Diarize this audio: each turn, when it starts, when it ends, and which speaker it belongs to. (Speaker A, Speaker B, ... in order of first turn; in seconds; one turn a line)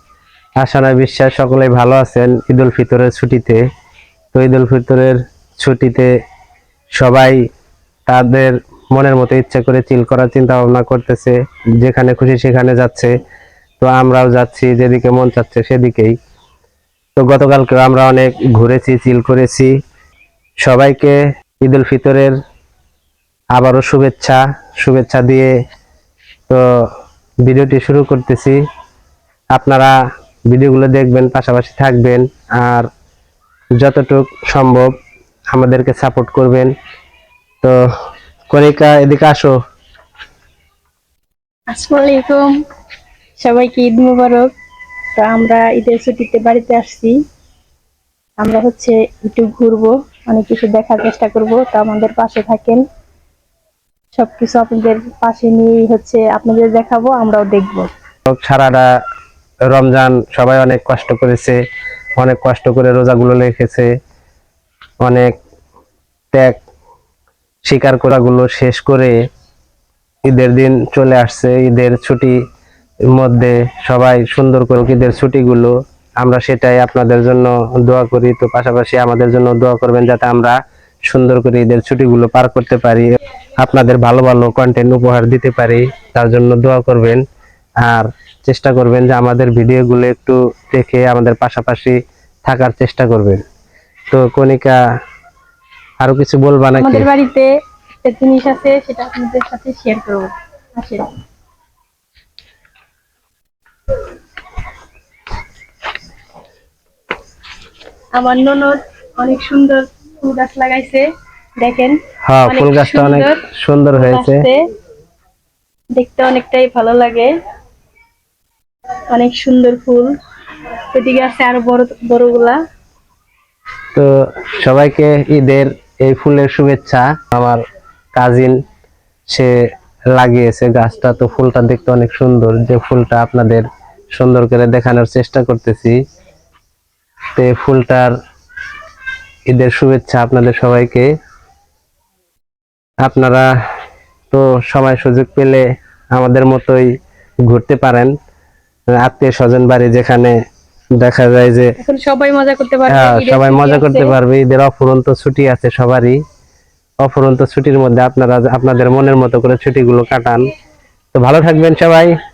Speaker A: 0.6-3.6
Speaker A: 4.3-6.1
Speaker A: 7.0-7.4
Speaker A: 8.1-13.1
Speaker A: 13.8-16.1
Speaker A: 17.2-19.7
Speaker A: 20.6-22.4
Speaker A: 23.5-25.5
Speaker A: 27.4-28.6
Speaker A: 29.5-29.9
Speaker A: 30.5-32.9
Speaker A: 33.8-34.9
Speaker A: 35.5-36.7
Speaker A: 38.5-39.5
Speaker B: 41.7-42.5
Speaker B: 43.4-44.5
Speaker B: 45.2-47.1
Speaker B: 48.4-52.8
Speaker B: 54.1-57.9
Speaker A: 58.3-58.9
Speaker A: 59.7-61.6
Speaker A: 62.2-63.9
Speaker A: 65.0-65.3
Speaker A: 66.3-66.6
Speaker A: 67.7-69.1
Speaker A: 70.3-72.4
Speaker A: 73.1-87.2
Speaker A: 87.8-93.4
Speaker A: 94.1-94.8
Speaker A: 96.0-97.1
Speaker B: 96.8-97.5
Speaker B: 98.0-101.1
Speaker B: 108.2-111.1
Speaker B: 111.6-113.4
Speaker A: 112.3-114.4
Speaker B: 114.0-114.7
Speaker B: 115.9-117.3
Speaker B: 119.1-120.2
Speaker B: 120.9-122.6
Speaker A: 124.0-127.6
Speaker A: 128.2-128.6
Speaker A: 130.1-136.0
Speaker A: 137.4-138.1
Speaker A: 139.5-141.1
Speaker A: 143.0-143.5
Speaker A: 144.3-146.9
Speaker A: 147.5-148.1
Speaker A: 149.0-150.3
Speaker A: 151.0-151.8
Speaker B: 151.8-154.2
Speaker A: 152.9-156.2
Speaker A: 157.0-160.4
Speaker A: 161.2-162.1